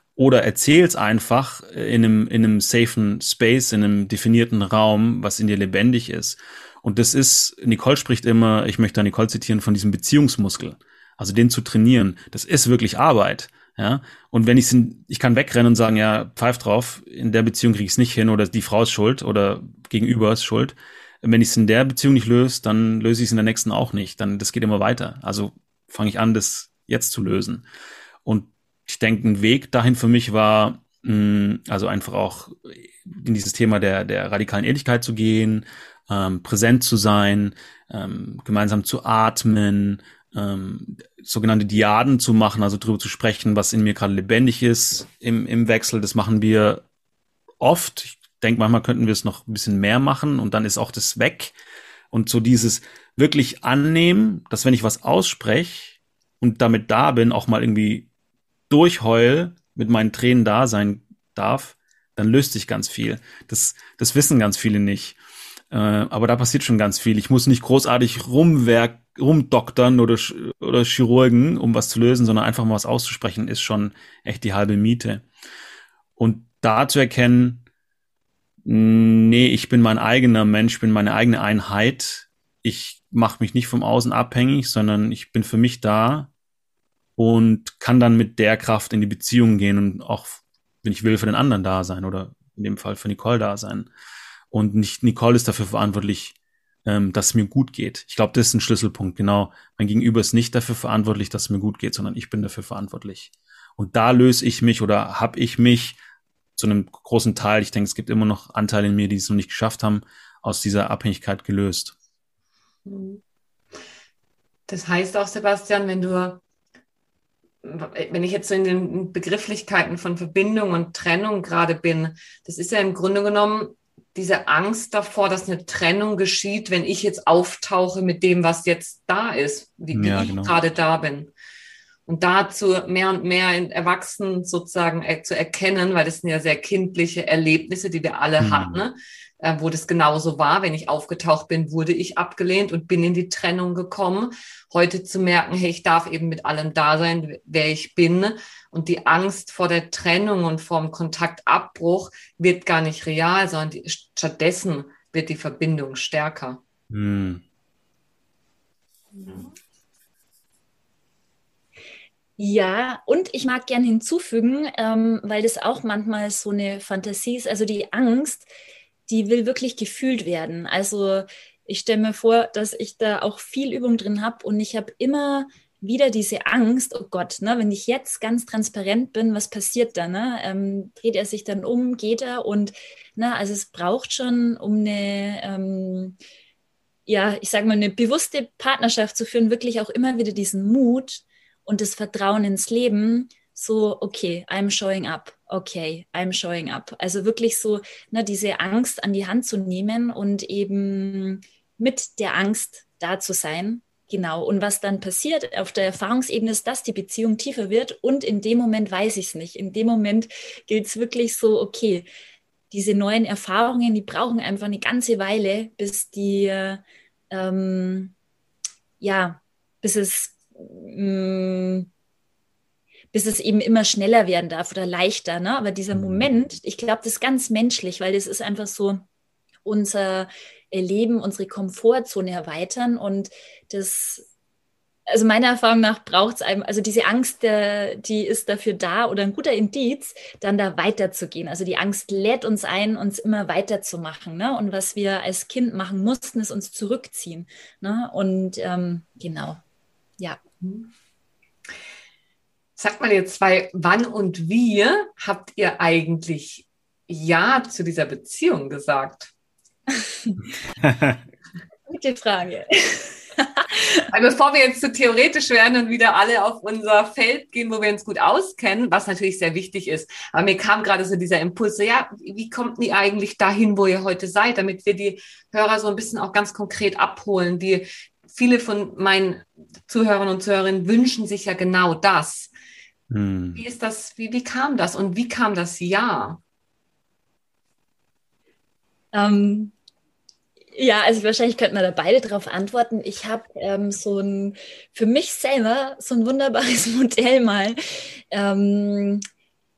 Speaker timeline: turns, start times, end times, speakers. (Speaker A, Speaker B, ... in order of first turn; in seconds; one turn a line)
Speaker A: 0.1-27.6
Speaker A: 28.2-46.8
Speaker A: 47.6-51.5
Speaker A: 52.1-58.1
Speaker A: 58.7-65.2
Speaker A: 65.7-75.2
Speaker A: 76.2-77.6
Speaker A: 78.6-86.3
Speaker A: 87.2-93.9
Speaker A: 94.5-106.0
Speaker A: 106.6-111.9
Speaker B: 112.8-113.2
Speaker B: 114.7-116.4
Speaker B: 117.6-131.3
Speaker A: 129.9-130.6
Speaker B: 132.1-156.6
Speaker A: 138.4-138.8
Speaker A: 156.9-157.4
Speaker B: 159.1-159.5
Speaker C: 162.4-168.5
Speaker C: 169.1-186.2
Speaker C: 187.1-212.1
Speaker C: 212.7-218.1
Speaker C: 219.0-221.9
Speaker C: 223.1-229.0
Speaker C: 229.6-234.2
Speaker C: 235.1-249.6
Speaker B: 250.6-250.9
Speaker B: 252.8-259.3
Speaker C: 260.0-260.4
Speaker A: 260.8-261.2
Speaker C: 261.9-264.1
Speaker B: 264.1-282.5
Speaker A: 283.1-283.6
Speaker B: 283.6-286.4
Speaker C: 289.1-289.7
Speaker C: 290.7-297.8
Speaker C: 298.3-299.2